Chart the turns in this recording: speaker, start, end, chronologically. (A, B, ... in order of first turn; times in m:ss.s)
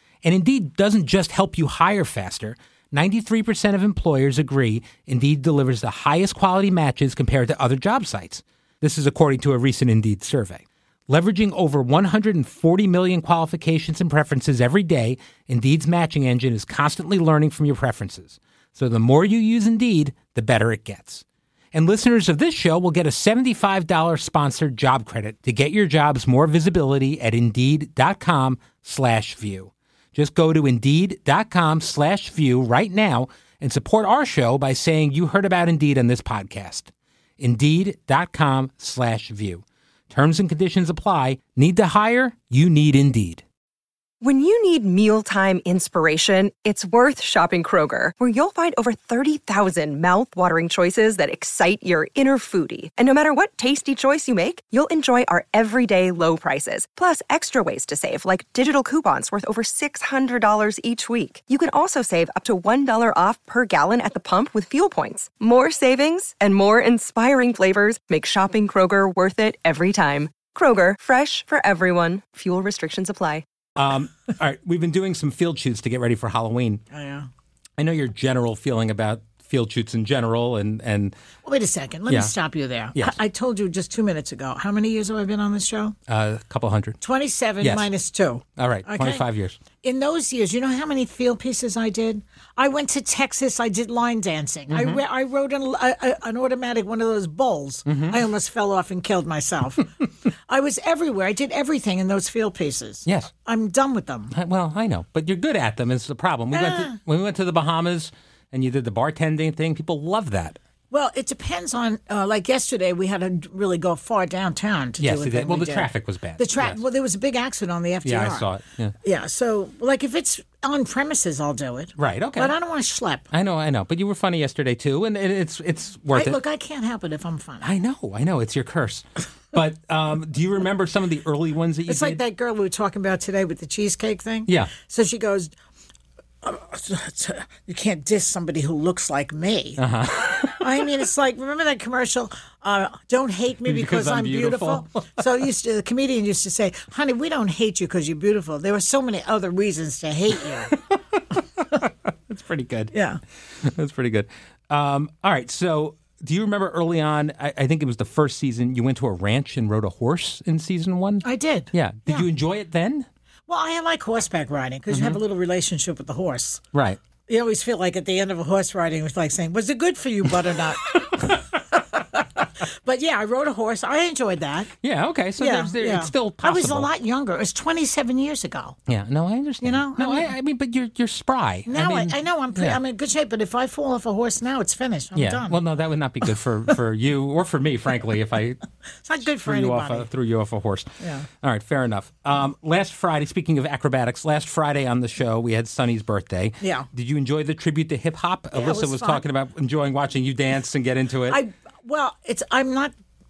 0:00.2-0:43.4 A
0:44.2-1:13.4 B
1:13.8-1:16.8 A
1:16.9-1:17.3 C
1:17.8-1:21.2 A
1:21.4-1:25.9 C
1:22.1-1:22.3 A
1:26.1-1:27.0 A
1:27.0-1:29.2 C
1:27.6-1:27.9 A
1:28.6-1:29.6 A
1:29.8-1:44.3 C
1:34.7-1:35.0 A
1:37.9-1:38.2 A
1:43.0-1:43.3 A
1:44.3-1:50.6 A
1:46.5-1:47.0 C
1:50.9-1:58.4 C
1:55.0-1:56.8 A
1:58.0-1:58.9 A
1:59.0-2:03.2 C
2:02.0-2:02.5 A
2:03.3-2:06.4 A
2:06.1-2:07.7 C
2:07.6-2:12.2 A
2:11.9-2:15.5 C
2:14.5-2:14.7 A
2:16.4-2:19.8 C
2:19.8-2:20.7 A
2:20.4-2:30.8 C
2:23.6-2:25.0 A
2:31.4-2:32.9 A
2:32.9-2:33.2 C
2:33.6-2:43.1 A
2:41.2-2:42.3 C
2:43.5-2:46.6 C
2:44.9-2:45.2 A
2:46.7-2:47.0 A
2:47.2-2:54.7 C
2:54.8-2:56.9 A
2:55.4-2:58.8 C
2:58.9-3:02.8 A
2:59.6-3:00.3 C
3:01.7-3:05.6 C
3:05.1-3:08.6 A
3:09.0-3:10.1 C
3:09.4-3:21.4 A
3:11.0-3:11.3 C
3:16.6-3:16.9 C
3:18.5-3:19.2 C
3:21.3-3:22.9 C